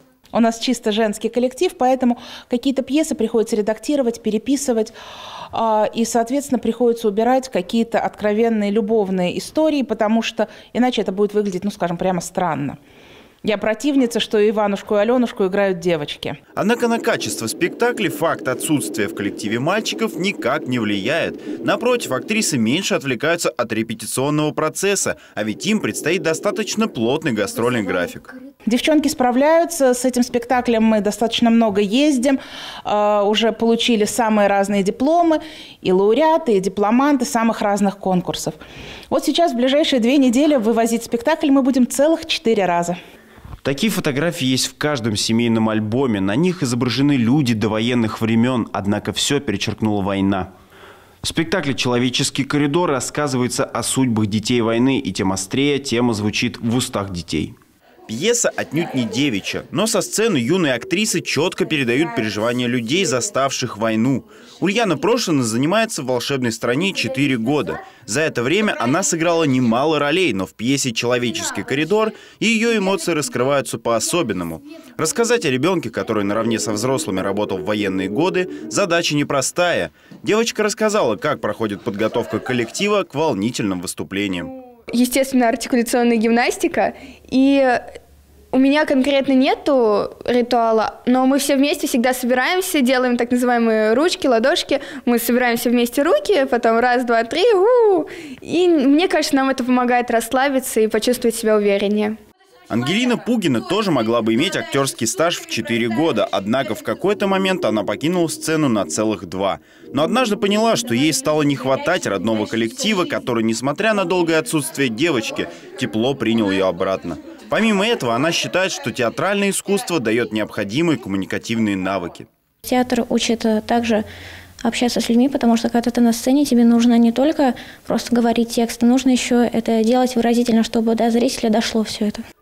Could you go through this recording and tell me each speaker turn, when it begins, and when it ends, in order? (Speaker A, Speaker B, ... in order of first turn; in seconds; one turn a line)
Speaker A: 0.3-4.9
Speaker A: 5.5-12.8
Speaker A: 13.4-16.4
Speaker B: 16.6-28.3
Speaker A: 28.6-38.6
Speaker A: 39.1-43.0
Speaker B: 43.6-50.5
Speaker B: 51.2-57.5
Speaker B: 58.1-84.5
Speaker C: 84.9-87.8
Speaker C: 88.5-102.2
Speaker B: 102.7-122.3
Speaker D: 122.7-124.0
Speaker D: 124.6-132.2